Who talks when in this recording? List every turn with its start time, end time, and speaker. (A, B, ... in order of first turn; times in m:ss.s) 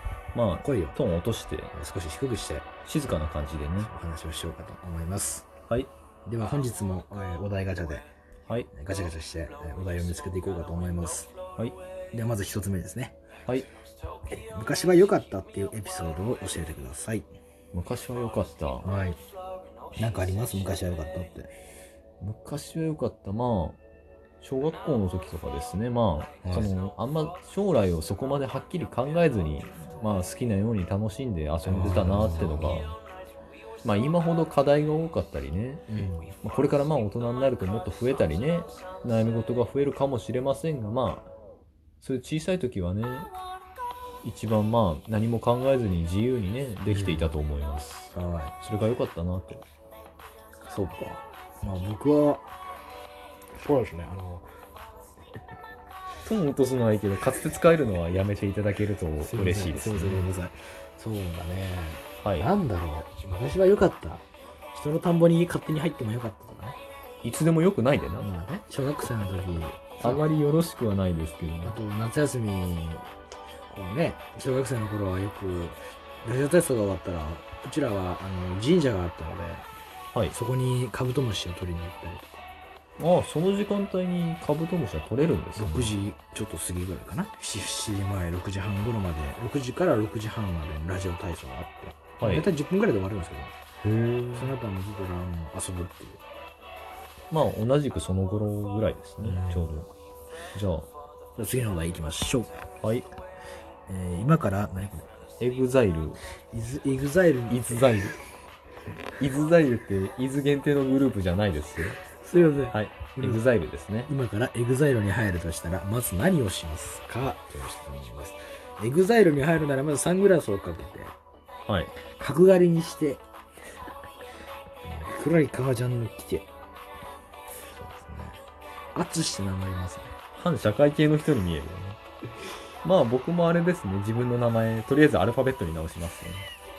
0:00.3-0:01.7 A
0:00.6-0:01.0 B
0:01.7-0:02.7 B
0:02.8-0:03.9 A
0:03.8-0:05.5 B
0:06.2-0:08.0 B
0:08.7-0:11.3 B
0:12.1-0:13.2 B
0:14.3-0:17.3 B
0:17.7-0:18.8 A
0:18.8-0:19.2 B
0:20.0-0:21.5 B
0:22.2-0:23.8 A
0:24.4-0:32.8 A
0:26.4-0:26.7 B
0:31.6-0:33.0 B
0:33.8-0:35.8 A
0:35.9-0:36.3 B
0:36.4-0:41.3 A
0:42.0-0:43.3 A
0:44.2-0:49.6 A
0:46.9-0:47.3 B
0:48.1-0:48.5 B
0:50.6-0:52.4 B
0:53.6-0:54.5 B
0:56.2-1:00.3 A
0:59.2-1:06.8 B
1:02.2-1:02.5 A
1:07.2-1:08.3 A
1:08.2-1:10.2 B
1:10.0-1:11.8 A
1:11.6-1:13.1 B
1:13.7-1:19.7 B
1:20.3-1:22.4 B
1:23.0-1:26.0 A
1:25.6-1:33.6 B
1:32.2-1:32.5 A
1:33.8-1:34.6 A
1:34.3-1:36.2 B
1:37.3-1:39.9 A
1:39.2-1:39.7 B
1:40.5-1:40.9 A
1:41.4-1:42.6 B
1:42.8-1:43.1 A
1:43.9-1:45.1 B
1:45.4-1:46.2 A
1:46.5-1:48.0 B
1:47.5-1:48.2 A
1:49.2-1:52.0 A
1:52.0-1:53.4 B
1:52.7-1:54.1 A
1:54.1-2:01.2 B
2:01.7-2:01.9 A
2:02.1-2:03.2 B
2:04.8-2:06.5 B
2:07.7-2:08.4 B
2:08.9-2:10.1 B
2:10.3-2:12.0 A
2:12.8-2:16.5 A